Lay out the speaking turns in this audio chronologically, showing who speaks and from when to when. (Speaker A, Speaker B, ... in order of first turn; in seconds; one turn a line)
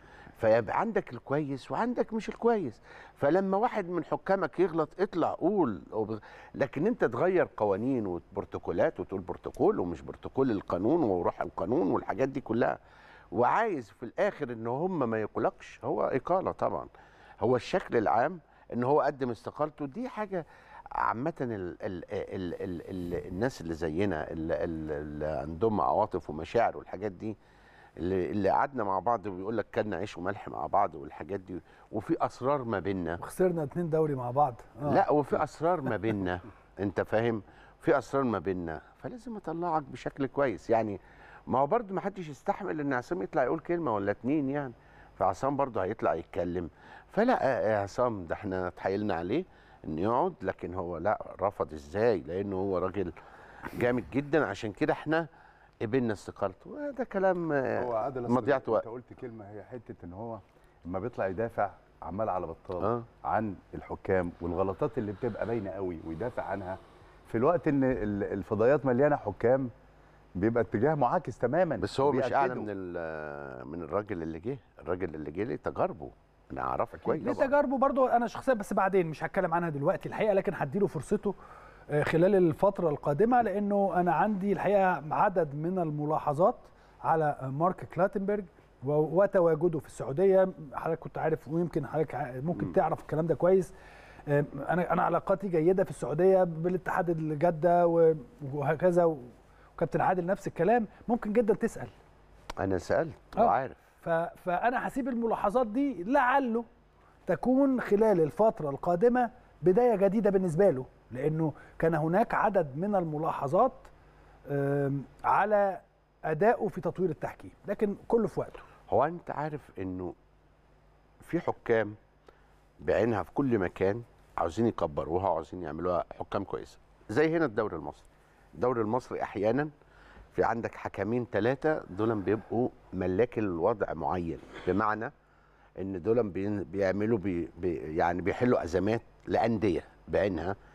Speaker A: 0.4-12.8
Speaker A: 13.3-16.9
Speaker A: 17.4-20.4
Speaker A: 21.0-27.4
Speaker A: 28.0-33.2
Speaker B: 33.2-35.0
Speaker A: 34.8-53.1
Speaker A: 53.7-55.2
Speaker A: 55.8-58.8
Speaker C: 57.8-69.7
Speaker A: 62.8-63.1
Speaker C: 70.4-72.7
Speaker A: 71.8-77.4
Speaker C: 76.9-77.5
Speaker B: 77.2-81.3
Speaker B: 81.9-93.7
Speaker B: 94.3-101.9
Speaker A: 102.6-103.8
Speaker B: 103.3-106.7
Speaker B: 107.3-113.9
Speaker B: 114.5-118.6
Speaker A: 118.9-120.1
Speaker A: 121.2-122.0
Speaker A: 122.8-129.7
Speaker A: 130.3-135.1
Speaker A: 135.8-140.5